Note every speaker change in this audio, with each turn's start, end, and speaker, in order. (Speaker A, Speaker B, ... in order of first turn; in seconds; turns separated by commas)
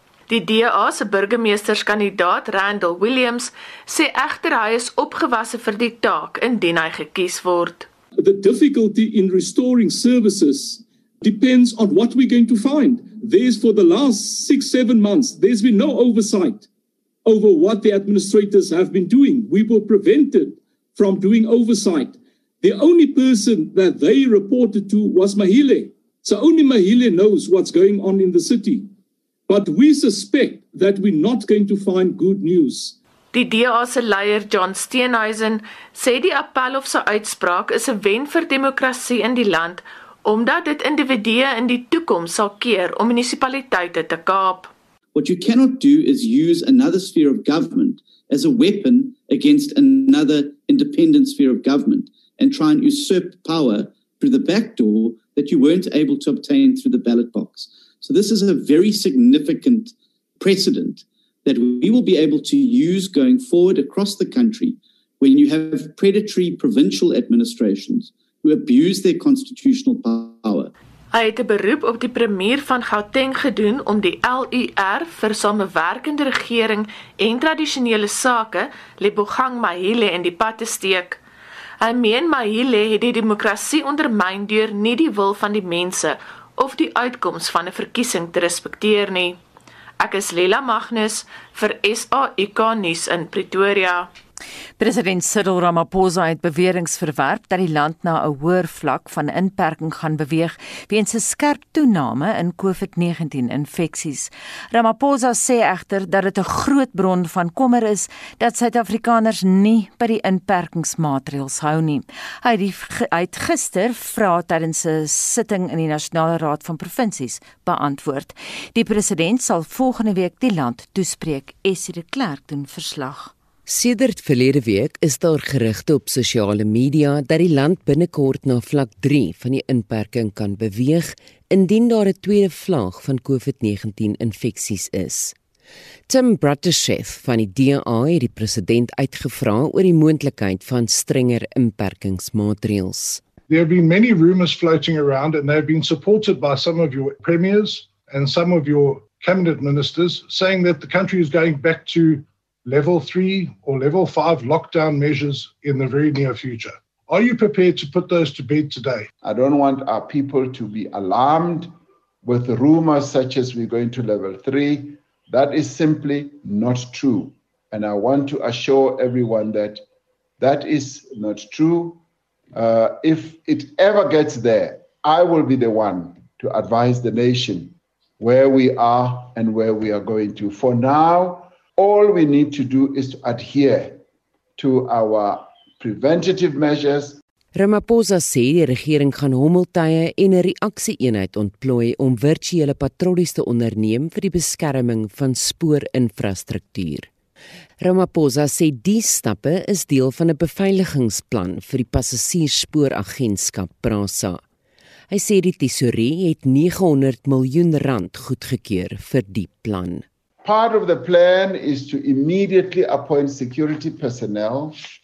Speaker A: 0.3-7.9, Speaker B: 8.2-16.7, Speaker B: 17.3-28.9, Speaker B: 29.5-33.0, Speaker A: 33.3-44.7, Speaker C: 45.1-70.7, Speaker A: 71.1-81.2, Speaker A: 81.8-89.4, Speaker A: 90.0-94.1, Speaker D: 94.8-123.3, Speaker E: 123.7-135.3, Speaker E: 136.1-143.2, Speaker F: 143.5-159.1, Speaker G: 159.2-169.8, Speaker G: 170.4-172.0, Speaker G: 172.5-184.0, Speaker G: 184.6-187.2, Speaker E: 187.6-197.1, Speaker E: 197.8-204.4, Speaker E: 205.1-210.1, Speaker G: 210.4-214.8